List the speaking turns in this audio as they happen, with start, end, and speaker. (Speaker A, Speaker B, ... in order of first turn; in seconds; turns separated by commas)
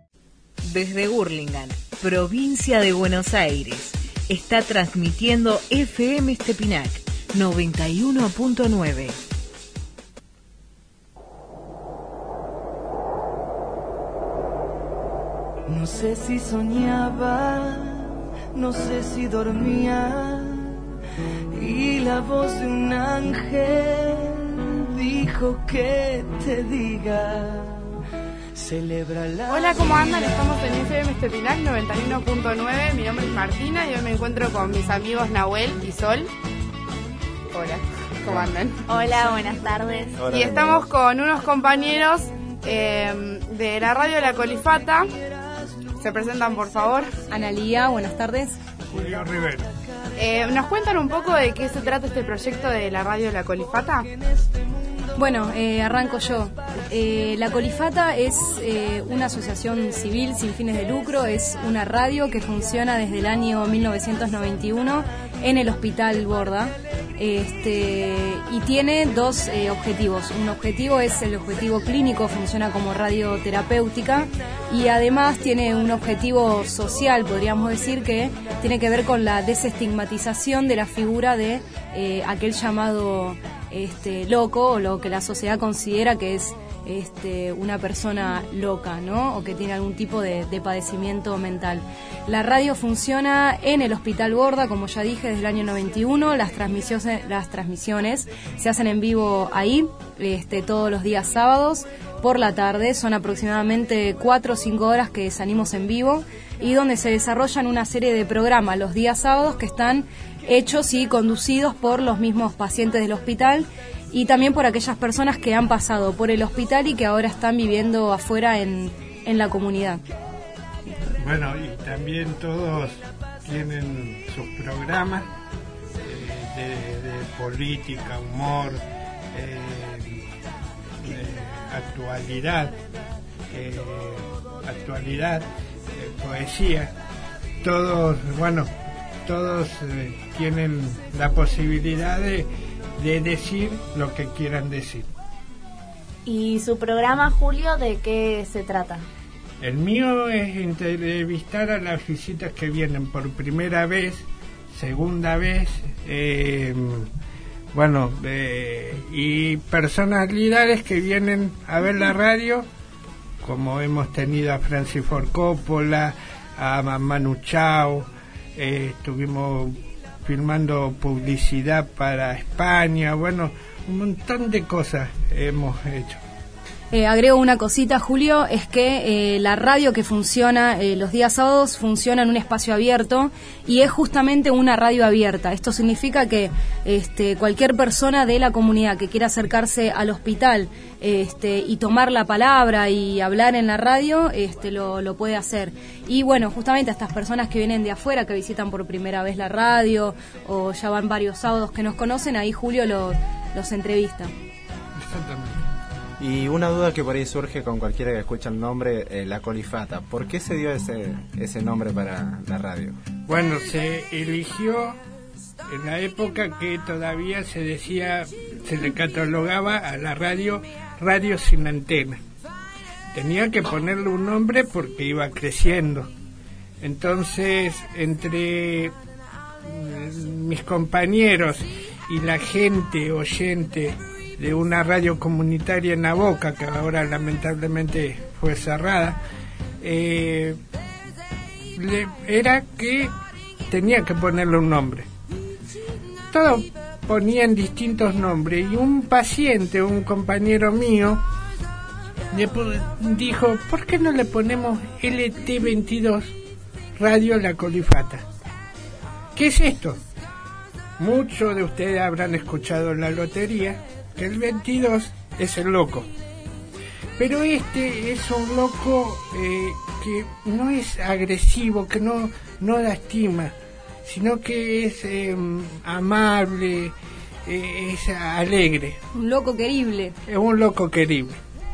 Speaker A: 0.6-9.2, Speaker B: 15.7-20.8, Speaker B: 21.5-27.9, Speaker B: 28.6-30.8, Speaker C: 29.5-36.3, Speaker C: 37.5-38.9, Speaker D: 38.3-38.5, Speaker E: 38.9-40.3, Speaker D: 40.2-40.9, Speaker C: 40.2-45.1, Speaker C: 46.0-47.1, Speaker F: 47.3-48.6, Speaker G: 48.9-49.7, Speaker C: 50.2-54.1, Speaker F: 55.1-120.0, Speaker G: 121.2-125.3, Speaker G: 126.0-130.3, Speaker G: 131.0-132.8, Speaker G: 133.5-136.9, Speaker G: 137.6-138.7, Speaker G: 139.2-145.1, Speaker E: 146.3-149.0, Speaker G: 149.6-157.1, Speaker G: 157.7-162.7, Speaker G: 163.4-176.2, Speaker F: 176.9-204.3, Speaker G: 205.0-205.7, Speaker D: 206.2-213.0, Speaker G: 213.3-215.0, Speaker G: 215.7-222.2, Speaker G: 223.1-226.1, Speaker G: 226.8-228.9, Speaker G: 229.6-239.2, Speaker G: 239.8-240.6, Speaker G: 241.7-243.1, Speaker G: 243.7-245.1, Speaker G: 246.3-251.2, Speaker G: 252.3-256.4, Speaker G: 257.0-258.3, Speaker G: 259.4-260.0, Speaker G: 261.0-266.1, Speaker G: 267.2-276.9, Speaker G: 277.5-279.0, Speaker F: 279.1-280.2, Speaker G: 280.3-281.4